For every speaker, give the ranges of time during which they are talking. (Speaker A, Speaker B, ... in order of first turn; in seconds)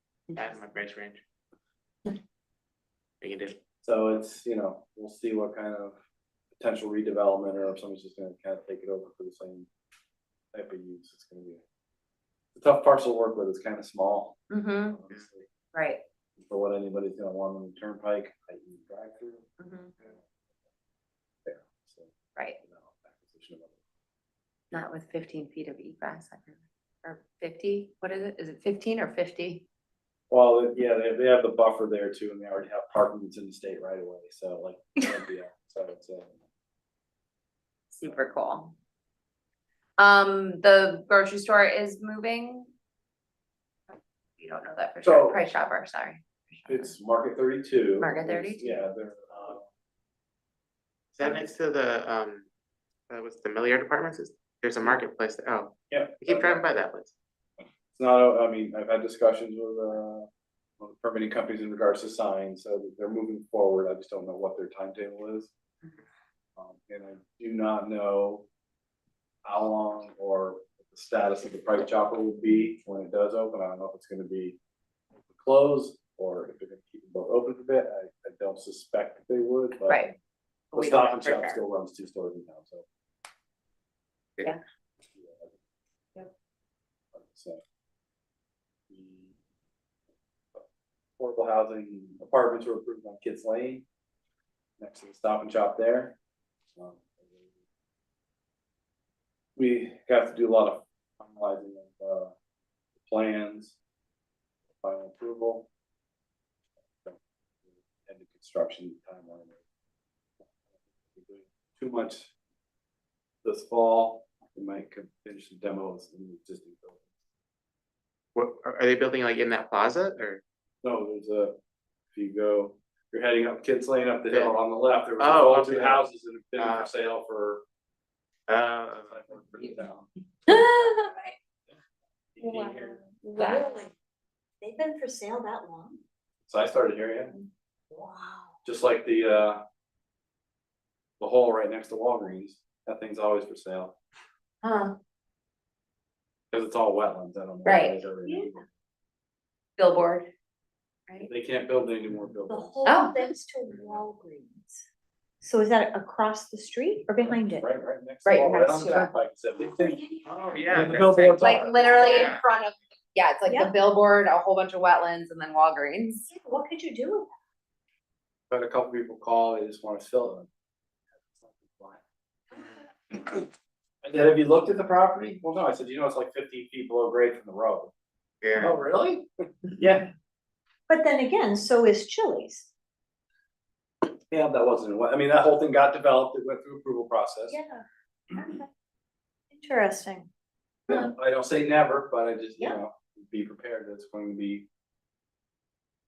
Speaker A: 0.3-1.2, 3.2-3.5, 51.1-52.5, 53.1-57.1, 118.3-120.4, 125.2-126.0, 126.6-126.9, 128.5-129.1, 160.2-162.4, 178.4-178.8
Speaker B: 3.8-6.0, 6.6-9.7, 10.5-11.6, 12.5-14.4, 14.9-15.5, 16.4-19.4, 21.4-23.8, 30.3-36.4, 45.0-45.4, 46.7-49.6, 55.9-56.8, 57.9-60.3, 60.8-65.5, 66.6-68.5, 69.4-74.6, 75.3-80.0, 80.7-82.8, 85.1-85.6, 87.1-87.6, 88.9-89.3, 91.2-93.8, 94.8-96.2, 96.8-97.5, 99.5-102.3, 103.0-103.8, 104.8-105.7, 107.7-109.6, 111.0-112.3, 113.4-117.0, 120.8-121.5, 122.1-127.6, 129.0-131.1, 132.3-133.0, 136.5-137.4, 138.6-139.6, 141.2-144.0, 146.5-148.7, 151.2-152.8, 157.3-160.0, 160.7-162.3, 168.5-170.5, 171.2-172.0, 173.1-173.4, 174.0-177.9, 178.6-180.1, 184.3-187.6, 190.9-194.7
Speaker C: 14.5-15.0, 15.7-16.0, 19.6-19.9, 24.7-29.6, 37.9-38.7, 40.0-42.7, 43.9-46.9, 48.0-48.9, 79.8-80.1, 80.7-81.6, 130.5-131.3, 132.4-133.8, 144.6-144.9, 147.6-148.0, 149.8-150.3, 152.8-153.1, 158.2-159.1, 161.4-166.3
Speaker D: 133.4-133.9, 134.6-136.0, 137.9-138.6, 148.2-148.5, 152.5-154.8, 155.4-157.7, 159.8-160.2, 163.5-163.7, 166.3-167.3, 180.9-182.7, 187.5-188.7, 189.5-190.3